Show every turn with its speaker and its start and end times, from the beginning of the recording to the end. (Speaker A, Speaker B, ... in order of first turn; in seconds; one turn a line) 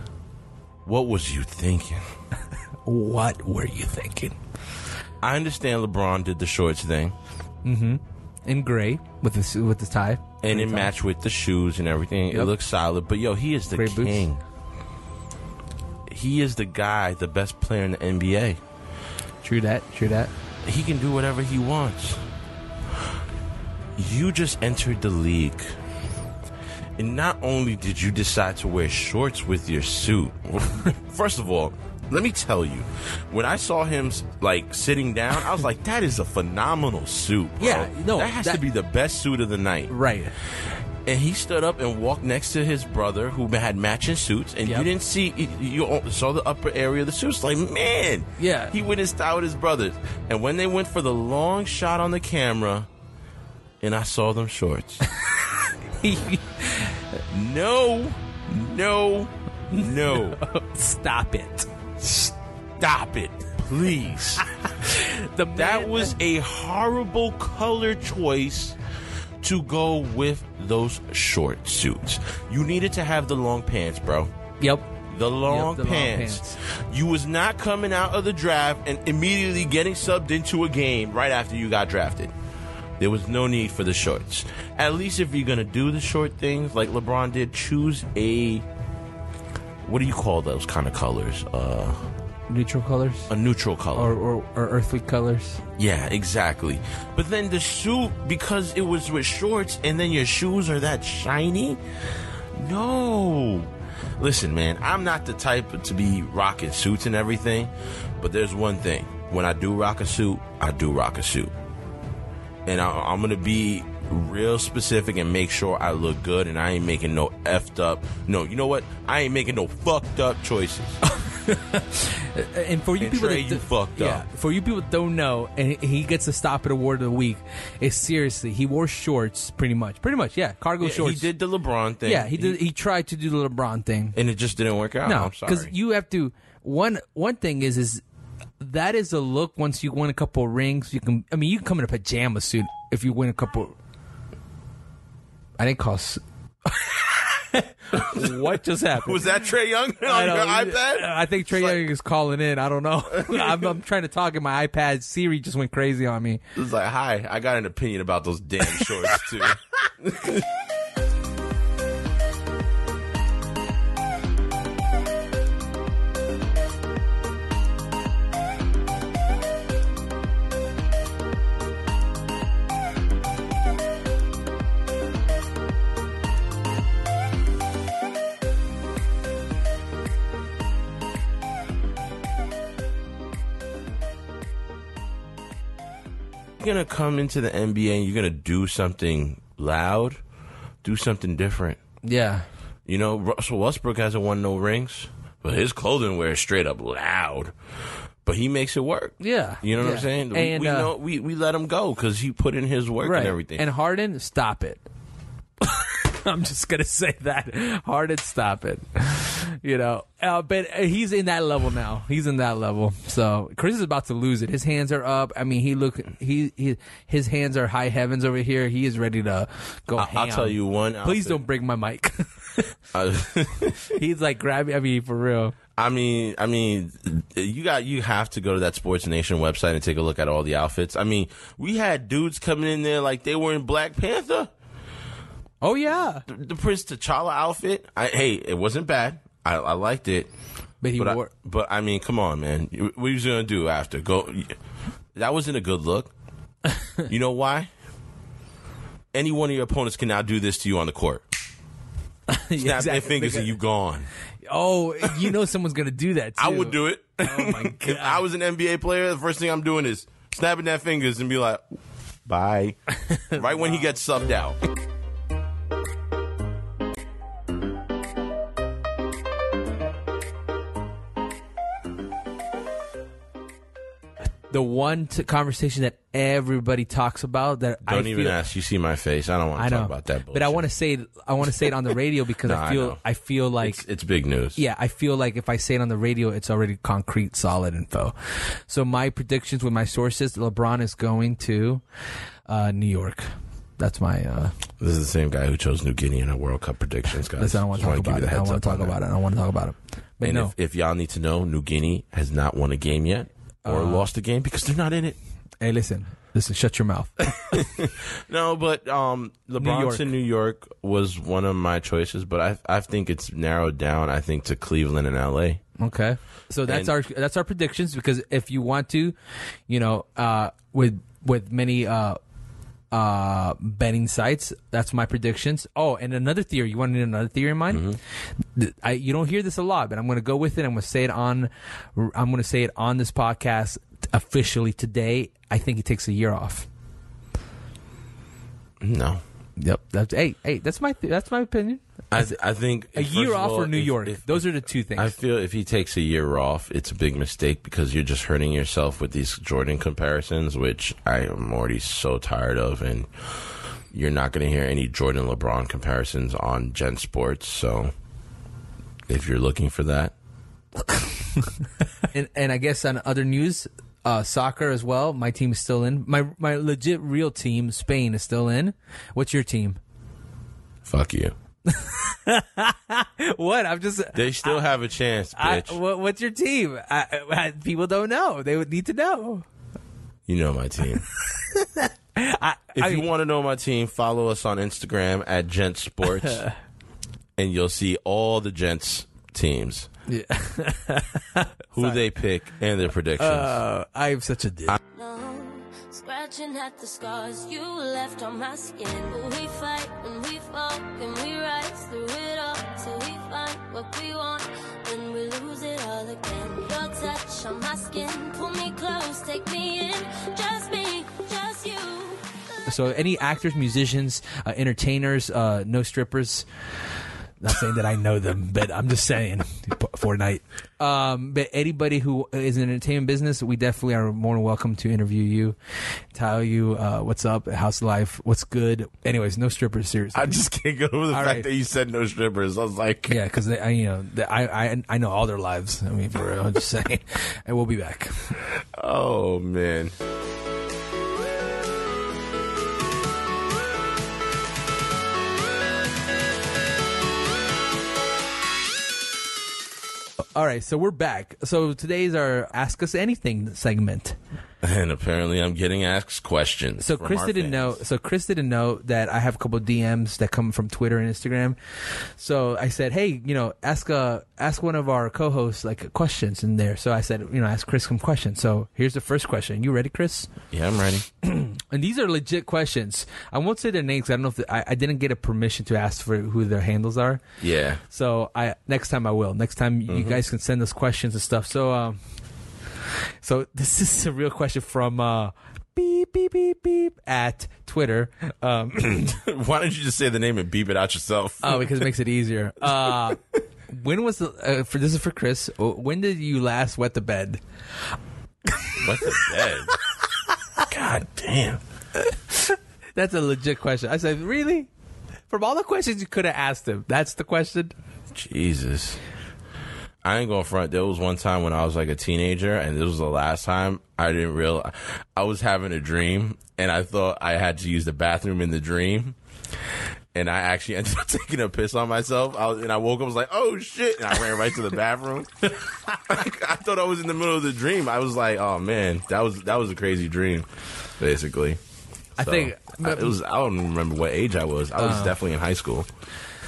Speaker A: 0.8-2.1
Speaker B: 2.9-4.4
Speaker A: 5.2-7.2
Speaker B: 7.6-10.9
Speaker A: 10.4-14.4
Speaker B: 13.7-14.3
Speaker A: 16.1-18.6
Speaker B: 19.4-20.3
Speaker A: 20.6-22.3
Speaker A: 23.9-25.8
Speaker A: 27.0-52.9
Speaker B: 37.6-38.6
Speaker B: 39.9-40.3
Speaker B: 48.4-48.7
Speaker A: 53.8-55.1
Speaker B: 56.0-57.0
Speaker A: 57.3-60.4
Speaker B: 59.7-62.3
Speaker A: 62.8-64.5
Speaker B: 64.7-66.2
Speaker A: 65.5-68.8
Speaker A: 69.4-74.3
Speaker B: 74.6-74.9
Speaker A: 75.1-82.3
Speaker B: 75.4-76.6
Speaker A: 83.0-88.7
Speaker A: 89.8-92.1
Speaker B: 92.5-93.3
Speaker A: 93.3-94.1
Speaker B: 93.9-95.6
Speaker A: 95.8-111.5
Speaker A: 112.6-120.9
Speaker B: 121.0-131.3
Speaker A: 123.0-124.2
Speaker A: 130.8-132.6
Speaker B: 132.0-134.2
Speaker A: 134.1-135.7
Speaker B: 135.0-138.0
Speaker B: 138.6-143.7
Speaker B: 145.6-149.3
Speaker A: 147.9-151.8
Speaker B: 150.0-156.4
Speaker A: 153.2-153.7
Speaker A: 156.5-160.5
Speaker B: 158.8-159.2
Speaker A: 186.6-190.2
Speaker A: 190.8-191.8
Speaker B: 192.0-192.4
Speaker A: 192.8-197.5
Speaker A: 198.2-203.6
Speaker B: 199.2-200.9
Speaker B: 203.0-204.8
Speaker B: 205.6-222.8
Speaker A: 219.9-221.4
Speaker A: 222.9-223.9
Speaker B: 223.8-225.6
Speaker A: 225.7-234.5
Speaker B: 235.6-236.2
Speaker A: 236.3-240.3
Speaker B: 240.8-241.3
Speaker A: 241.0-244.6
Speaker A: 245.1-246.1
Speaker B: 246.7-247.0
Speaker A: 247.1-247.7
Speaker A: 249.1-251.3
Speaker B: 252.3-253.5
Speaker A: 252.6-254.1
Speaker B: 254.4-258.2
Speaker A: 255.0-255.3
Speaker A: 256.4-261.7
Speaker A: 262.2-264.6
Speaker B: 263.1-263.8
Speaker B: 274.5-278.4
Speaker A: 277.9-280.6
Speaker B: 279.6-283.8
Speaker A: 282.4-283.0
Speaker A: 283.6-284.6
Speaker B: 284.5-291.8
Speaker B: 292.4-294.5
Speaker A: 294.8-299.0
Speaker B: 297.4-300.5
Speaker A: 300.2-305.2
Speaker B: 303.6-304.1
Speaker B: 305.6-307.7
Speaker A: 307.4-315.6
Speaker B: 309.6-310.1
Speaker B: 315.8-319.1
Speaker A: 316.6-316.9
Speaker B: 319.7-322.2
Speaker B: 322.9-336.7
Speaker A: 327.7-328.0
Speaker A: 338.8-339.2
Speaker B: 339.6-342.4
Speaker A: 342.1-357.9
Speaker B: 342.9-345.1
Speaker A: 359.1-360.1
Speaker B: 360.8-361.5
Speaker B: 362.1-369.8
Speaker A: 370.8-371.3
Speaker B: 371.7-374.6
Speaker A: 374.1-375.8
Speaker B: 375.3-379.4
Speaker A: 380.2-381.0
Speaker B: 381.3-383.0
Speaker A: 382.7-386.4
Speaker B: 386.2-386.5
Speaker A: 387.4-389.9
Speaker B: 390.1-392.1
Speaker A: 391.7-393.6
Speaker B: 393.2-394.8
Speaker C: 394.9-412.2
Speaker B: 412.7-416.5
Speaker B: 417.4-425.6
Speaker B: 426.1-430.4
Speaker A: 430.1-433.2
Speaker B: 431.1-431.5
Speaker B: 433.1-438.4
Speaker A: 438.7-439.9
Speaker B: 450.3-454.2
Speaker A: 454.6-457.8
Speaker B: 456.8-470.3
Speaker A: 470.5-471.1
Speaker B: 471.2-477.2
Speaker A: 477.4-477.8
Speaker B: 477.9-482.0
Speaker A: 479.9-480.2
Speaker B: 483.2-489.2
Speaker A: 489.0-491.9
Speaker B: 491.4-497.4
Speaker B: 498.5-499.3
Speaker A: 498.8-499.7
Speaker A: 500.7-501.6
Speaker B: 502.1-504.7
Speaker B: 505.3-507.7
Speaker A: 508.1-509.0
Speaker A: 510.0-519.1
Speaker A: 520.1-530.5
Speaker A: 531.0-531.6
Speaker B: 532.2-533.1
Speaker A: 532.2-535.9
Speaker B: 534.8-535.2